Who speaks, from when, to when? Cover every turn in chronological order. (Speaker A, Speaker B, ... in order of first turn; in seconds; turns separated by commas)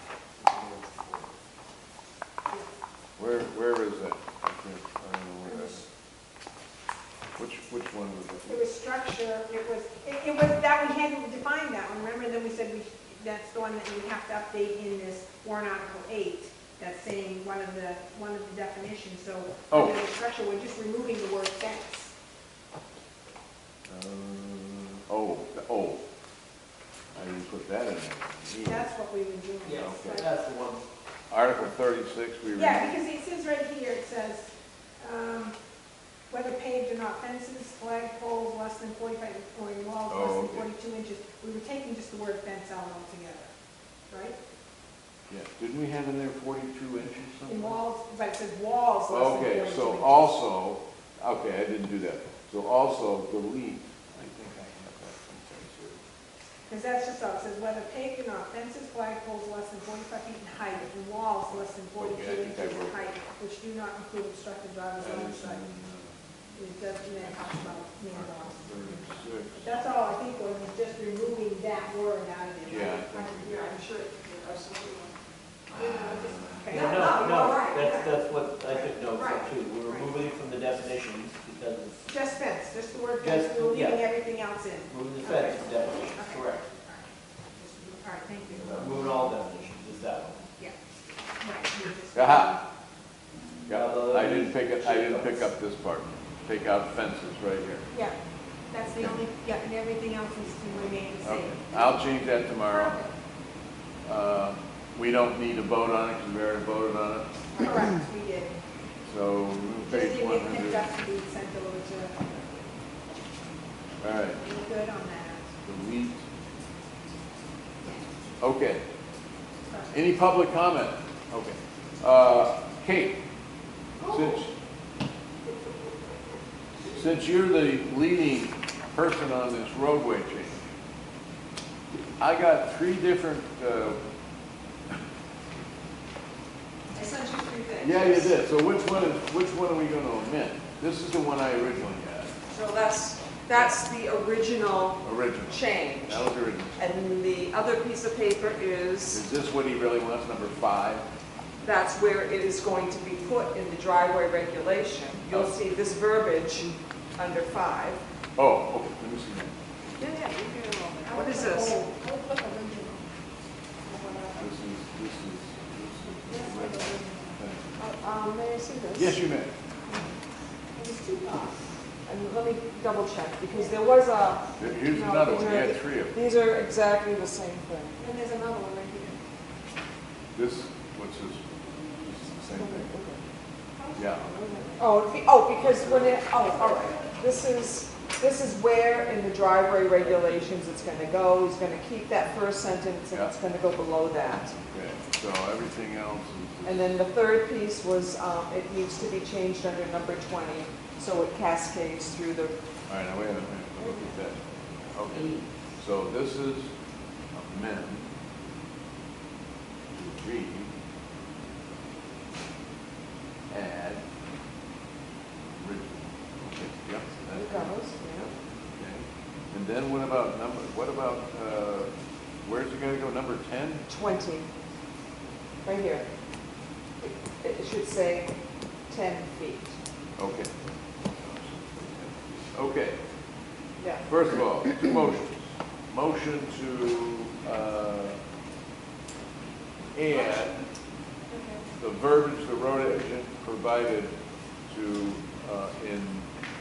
Speaker A: 0.4-1.2, Speaker A: 3.2-5.8, Speaker B: 5.4-5.8, Speaker A: 7.4-8.7, Speaker B: 8.4-22.1, Speaker A: 19.7-20.0, Speaker A: 23.9-26.0, Speaker A: 27.1-28.9, Speaker B: 28.6-30.3, Speaker C: 29.6-30.8, Speaker A: 29.8-30.3, Speaker A: 31.3-32.9, Speaker B: 32.5-35.5, Speaker B: 36.3-43.5, Speaker A: 40.1-40.6, Speaker B: 44.1-44.4, Speaker A: 45.3-47.8, Speaker B: 47.5-50.3, Speaker A: 49.1-56.0, Speaker B: 56.7-65.6, Speaker A: 62.0-63.0, Speaker A: 65.0-66.1, Speaker B: 66.5-73.0, Speaker A: 67.1-69.7, Speaker A: 72.6-73.7, Speaker D: 73.0-75.2, Speaker D: 75.7-78.2, Speaker B: 75.8-77.3, Speaker A: 76.1-76.7, Speaker C: 76.7-82.0, Speaker B: 79.1-80.1, Speaker B: 82.0-89.1, Speaker C: 83.2-84.0, Speaker C: 84.9-86.6, Speaker C: 88.6-90.4, Speaker B: 91.4-92.6, Speaker A: 92.1-92.5, Speaker A: 93.7-97.9, Speaker C: 93.7-95.5, Speaker B: 97.9-98.2, Speaker B: 98.7-102.0, Speaker A: 98.9-99.2, Speaker A: 101.2-103.0, Speaker B: 102.6-103.1, Speaker A: 104.0-107.3, Speaker B: 107.5-108.5, Speaker A: 109.0-110.9, Speaker B: 109.8-112.4, Speaker A: 114.0-114.4, Speaker B: 114.3-115.5, Speaker A: 115.6-116.2, Speaker A: 118.4-118.8, Speaker B: 119.6-120.0, Speaker A: 119.9-123.2, Speaker B: 124.0-124.3, Speaker A: 124.1-124.5, Speaker A: 126.9-130.7, Speaker A: 132.2-134.0, Speaker D: 136.9-138.3, Speaker A: 137.8-142.3, Speaker D: 142.5-149.2, Speaker A: 145.0-146.8, Speaker A: 149.1-151.1, Speaker D: 151.6-158.0, Speaker A: 158.4-159.5, Speaker D: 160.0-161.8, Speaker B: 161.0-163.1, Speaker B: 163.8-164.5, Speaker A: 164.4-167.8, Speaker B: 166.1-167.4, Speaker D: 167.8-169.2, Speaker A: 168.9-169.5, Speaker B: 170.7-171.6, Speaker D: 172.0-178.0, Speaker B: 173.5-173.9, Speaker A: 174.6-176.2, Speaker B: 178.0-179.2, Speaker A: 180.3-182.9, Speaker D: 182.5-183.2, Speaker B: 183.7-184.9, Speaker A: 183.9-184.3, Speaker D: 184.7-194.6, Speaker B: 186.2-187.2, Speaker A: 194.7-197.0, Speaker D: 196.6-202.6, Speaker A: 202.9-206.7, Speaker D: 205.1-205.5, Speaker A: 207.3-208.1, Speaker A: 209.9-210.7, Speaker A: 213.5-214.0, Speaker A: 215.5-221.9, Speaker D: 217.3-218.3, Speaker A: 222.4-223.8, Speaker D: 223.9-224.5, Speaker D: 225.6-226.1, Speaker D: 227.0-228.3, Speaker D: 228.9-229.8, Speaker A: 230.2-233.0, Speaker D: 233.8-234.1, Speaker A: 234.1-238.2, Speaker A: 239.9-240.6, Speaker B: 240.1-240.7, Speaker B: 241.3-241.6, Speaker A: 241.8-244.1, Speaker A: 244.7-246.3